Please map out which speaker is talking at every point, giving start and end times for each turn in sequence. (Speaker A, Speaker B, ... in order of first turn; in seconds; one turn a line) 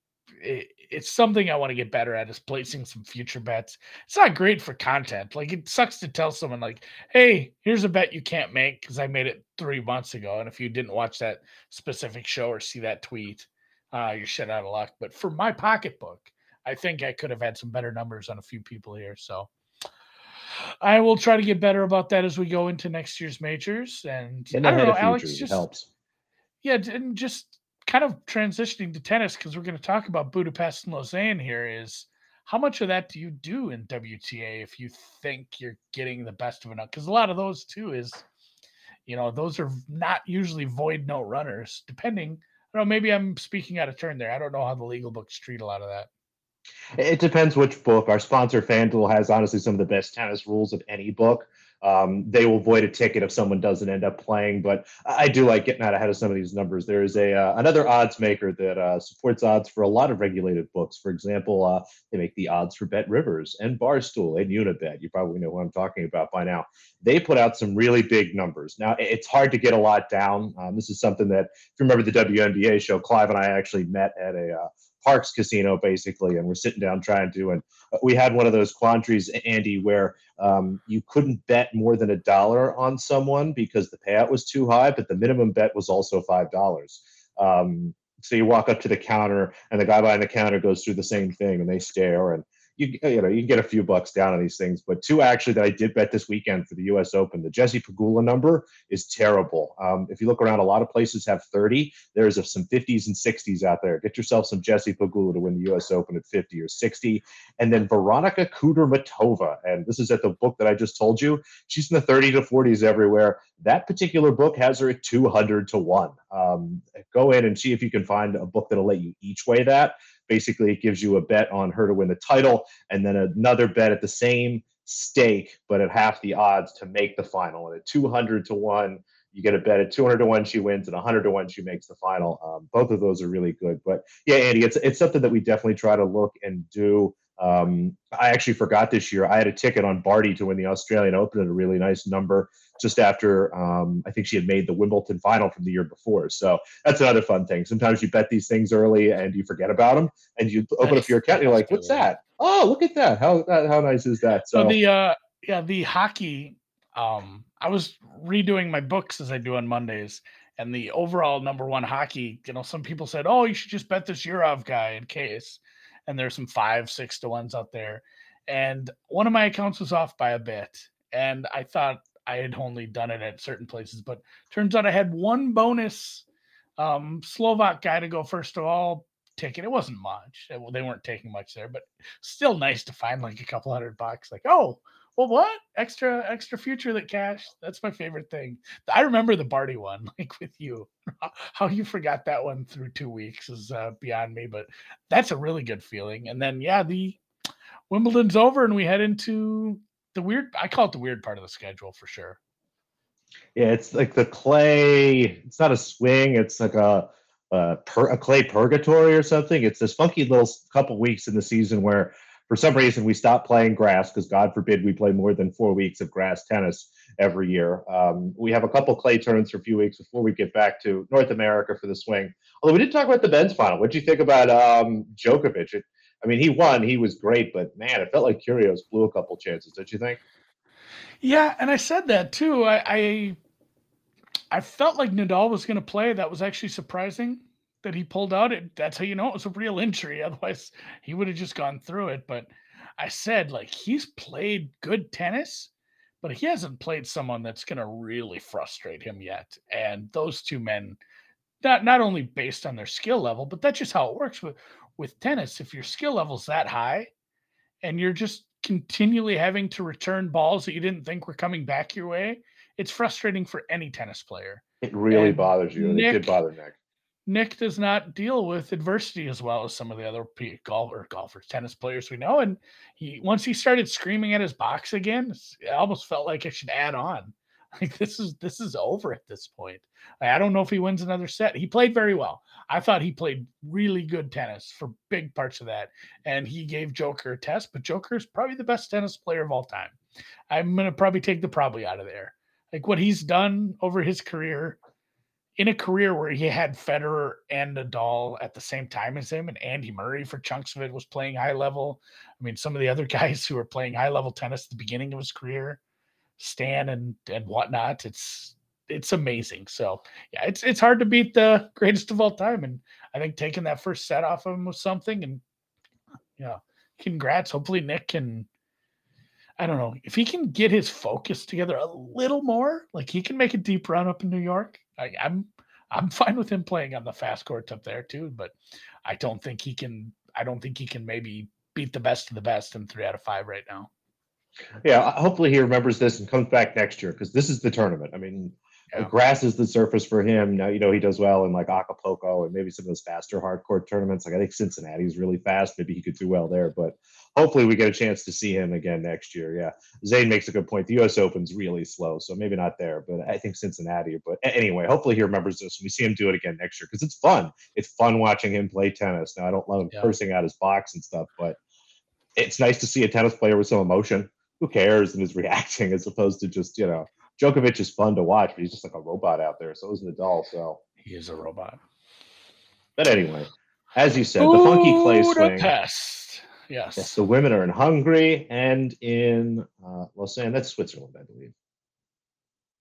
Speaker A: 0.4-19.5
Speaker A: 20.8-25.6
Speaker B: 24.5-25.9
Speaker A: 26.6-38.2
Speaker A: 39.0-46.1
Speaker B: 47.0-154.8
Speaker A: 150.8-152.1
Speaker A: 154.5-176.2
Speaker A: 176.8-197.2
Speaker A: 197.9-202.4
Speaker B: 203.6-230.2
Speaker A: 231.2-233.4
Speaker A: 234.5-245.7
Speaker A: 246.2-251.0
Speaker A: 251.6-257.1
Speaker A: 257.8-266.4
Speaker B: 264.8-266.7
Speaker A: 267.2-289.9
Speaker A: 290.5-294.8
Speaker A: 295.6-305.8
Speaker A: 306.4-315.4
Speaker A: 316.4-318.5
Speaker A: 319.6-333.9
Speaker B: 334.8-361.6
Speaker B: 362.4-370.8
Speaker A: 371.0-371.8
Speaker B: 373.0-375.7
Speaker A: 374.4-377.2
Speaker B: 376.9-381.5